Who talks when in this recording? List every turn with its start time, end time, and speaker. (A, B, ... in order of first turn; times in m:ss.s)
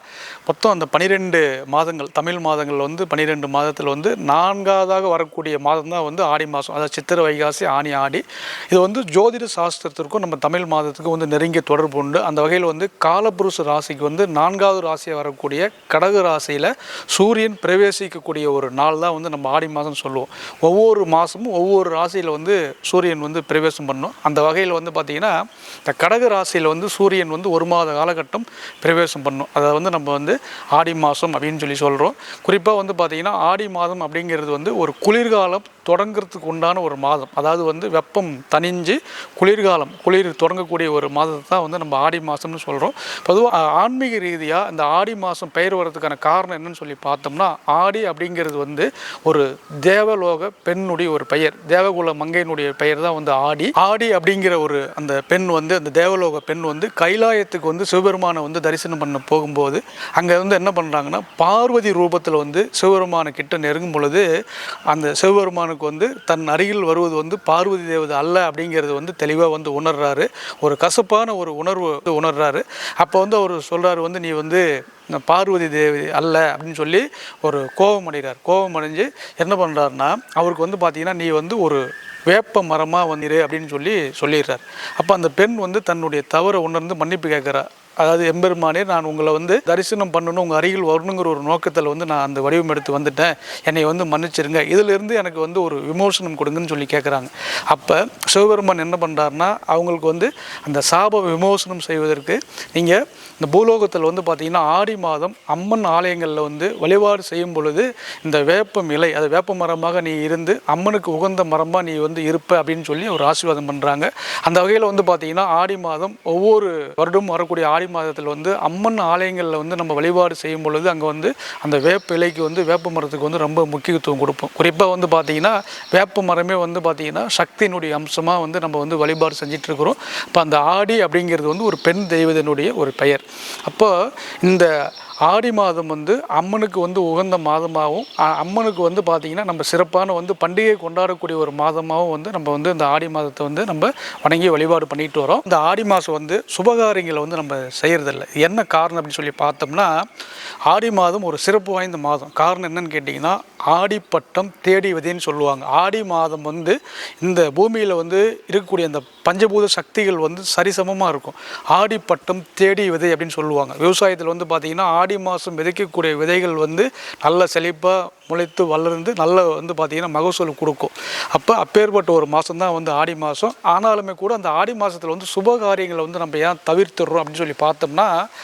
0:00.4-1:04.3 A
1:04.9-2:14.7 A
2:15.2-2:30.0 A
2:30.7-2:58.1 A